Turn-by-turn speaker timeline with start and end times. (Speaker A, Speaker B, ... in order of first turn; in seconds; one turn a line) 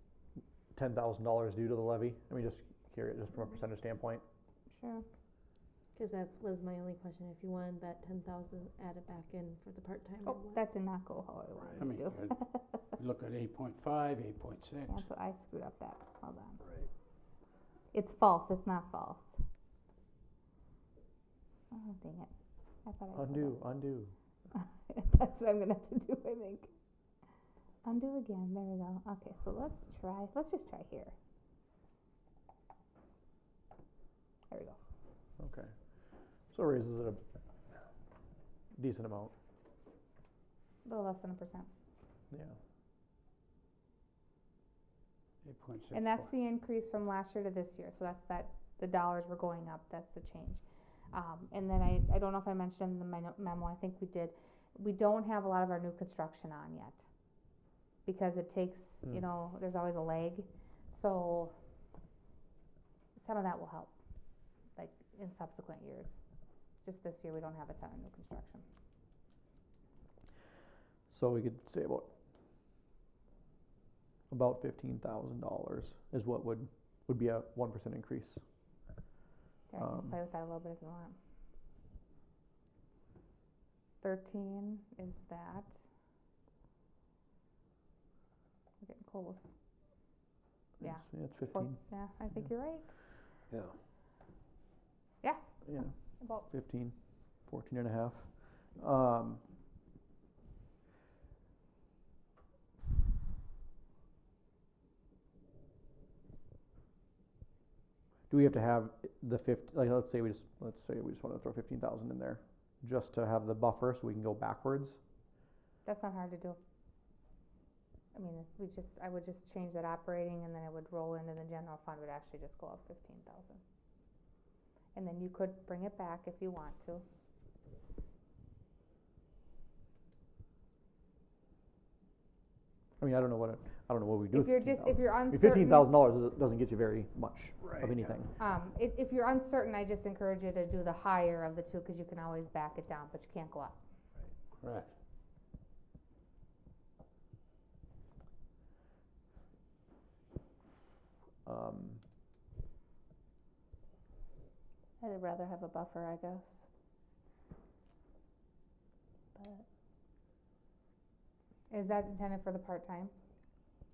Speaker A: 0.7-4.2
Speaker B: 4.7-5.0
Speaker C: 6.0-10.6
Speaker B: 10.2-12.6
Speaker D: 11.8-15.0
Speaker B: 14.9-16.6
Speaker C: 16.6-16.9
Speaker B: 17.9-19.4
Speaker B: 21.7-22.3
Speaker B: 22.8-23.6
Speaker A: 23.1-24.1
Speaker B: 24.5-26.7
Speaker B: 27.8-31.1
Speaker B: 34.5-34.8
Speaker A: 35.4-35.7
Speaker A: 36.5-37.2
Speaker A: 38.8-39.3
Speaker B: 40.8-41.7
Speaker A: 42.3-42.5
Speaker D: 45.4-46.3
Speaker B: 45.9-57.0
Speaker B: 58.0-61.5
Speaker B: 63.2-64.0
Speaker B: 64.8-66.2
Speaker B: 66.8-68.6
Speaker A: 71.1-72.1
Speaker A: 74.3-78.4
Speaker B: 79.7-81.2
Speaker A: 79.8-80.2
Speaker B: 84.0-85.8
Speaker B: 88.8-89.5
Speaker A: 90.8-91.8
Speaker B: 90.8-92.9
Speaker B: 95.2-96.4
Speaker A: 95.7-99.4
Speaker A: 108.3-115.0
Speaker B: 115.8-116.6
Speaker B: 118.1-123.6
Speaker B: 124.9-127.0
Speaker A: 133.0-138.3
Speaker B: 134.3-135.9
Speaker B: 138.4-143.8
Speaker D: 144.6-144.9
Speaker A: 151.4-152.0
Speaker E: 155.0-156.7
Speaker E: 159.4-159.7
Speaker B: 161.7-163.1